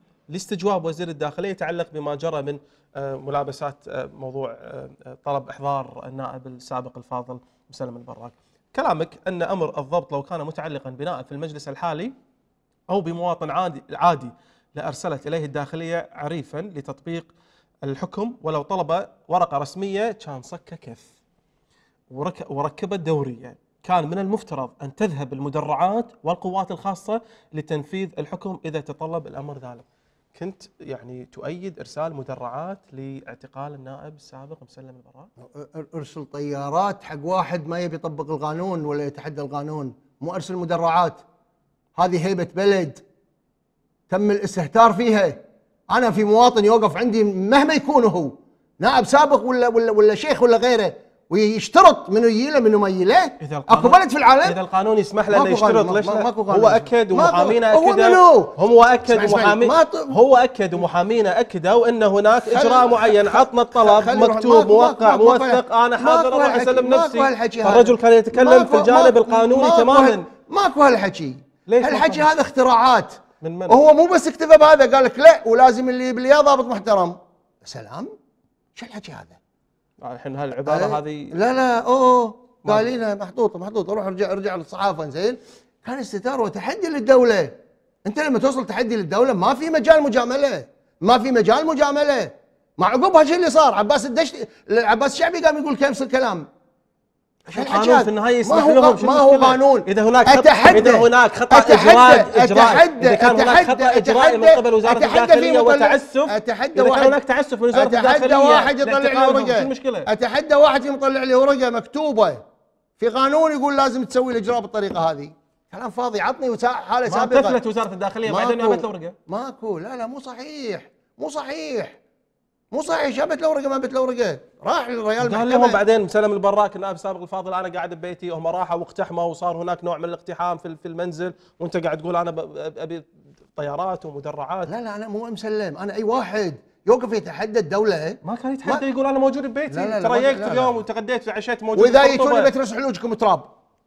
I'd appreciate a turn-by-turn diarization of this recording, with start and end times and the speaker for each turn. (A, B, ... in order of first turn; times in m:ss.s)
0:00.3-0:12.1 A
0:12.9-0:17.3 A
0:17.8-0:21.1 A
0:22.1-0:35.3 A
0:35.4-0:41.2 B
0:42.0-0:43.0 B
0:44.1-0:54.6 B
0:53.4-1:10.2 A
0:55.3-1:00.2 B
1:02.4-1:18.1 B
1:11.7-1:12.3 A
1:13.4-1:13.8 A
1:18.7-1:19.4 B
1:20.0-1:21.4 A
1:20.7-1:36.5 B
1:22.6-1:22.9 A
1:37.5-1:47.2 B
1:37.5-1:50.1 A
1:47.7-1:52.4 B
1:53.0-1:57.6 B
1:57.1-1:59.2 A
1:58.2-2:02.0 B
2:02.7-2:05.8 B
2:05.2-2:14.7 A
2:14.7-2:18.8 B
2:18.2-2:22.5 A
2:19.7-2:20.8 B
2:21.7-2:23.5 B